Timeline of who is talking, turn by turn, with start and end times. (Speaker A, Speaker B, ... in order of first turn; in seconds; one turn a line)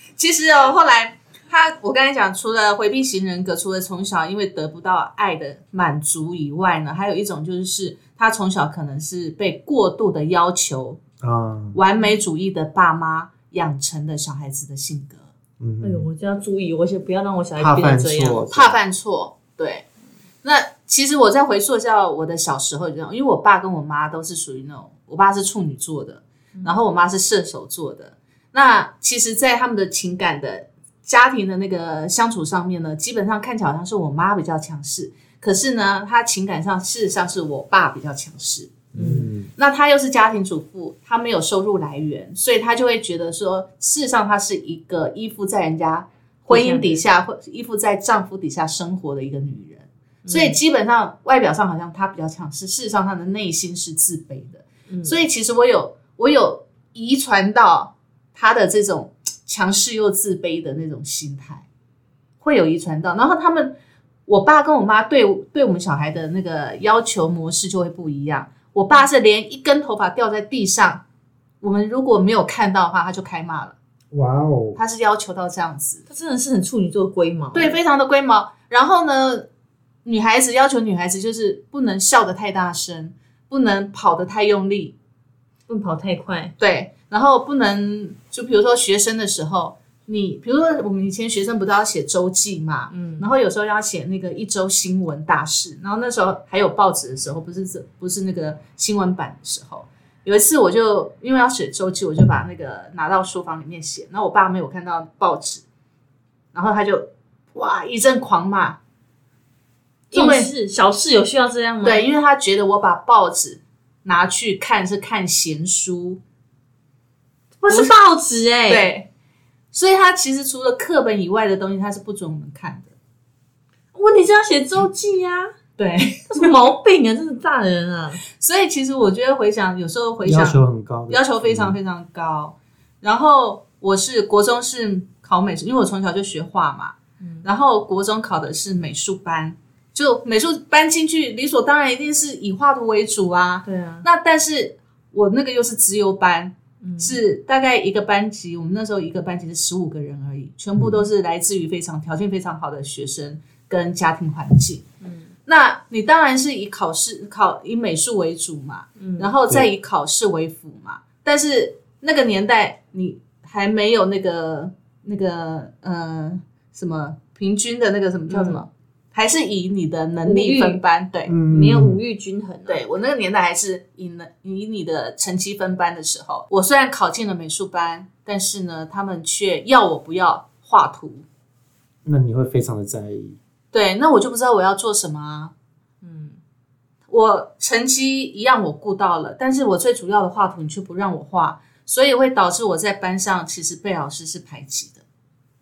Speaker A: 0.2-11.0
Speaker B: 11.2-11.8
Speaker A: 11.7-15.3
Speaker B: 15.6-16.1
Speaker C: 15.8-18.4
Speaker B: 17.6-18.8
Speaker A: 18.5-19.9
Speaker A: 20.4-38.7
Speaker B: 38.9-39.5
Speaker C: 39.0-39.3
Speaker A: 39.5-61.6
Speaker C: 46.5-47.0
Speaker C: 50.2-50.6
Speaker C: 54.9-55.2
Speaker A: 62.4-63.7
Speaker A: 64.3-71.0
Speaker A: 71.6-73.7
Speaker B: 74.1-74.8
Speaker A: 74.8-76.0
Speaker C: 76.1-77.8
Speaker A: 77.5-79.5
Speaker A: 80.0-84.9
Speaker C: 85.7-86.5
Speaker A: 86.6-105.6
Speaker C: 92.9-93.2
Speaker A: 106.5-108.8
Speaker C: 110.1-112.0
Speaker A: 110.1-110.5
Speaker A: 111.8-116.2
Speaker C: 117.6-118.9
Speaker A: 118.7-119.1
Speaker A: 119.7-122.9
Speaker C: 123.9-125.5
Speaker A: 125.8-126.5
Speaker C: 126.3-128.2
Speaker A: 128.3-154.8
Speaker B: 130.2-131.7
Speaker C: 137.2-137.4
Speaker C: 143.7-144.0
Speaker C: 146.8-147.2
Speaker C: 155.0-155.3
Speaker A: 155.5-171.3
Speaker C: 159.0-159.3
Speaker C: 168.3-168.6
Speaker C: 170.2-170.8
Speaker B: 171.3-172.0
Speaker C: 171.5-172.8
Speaker A: 172.7-181.2
Speaker B: 182.0-183.4
Speaker A: 183.7-185.5
Speaker C: 186.0-186.4
Speaker A: 187.1-195.0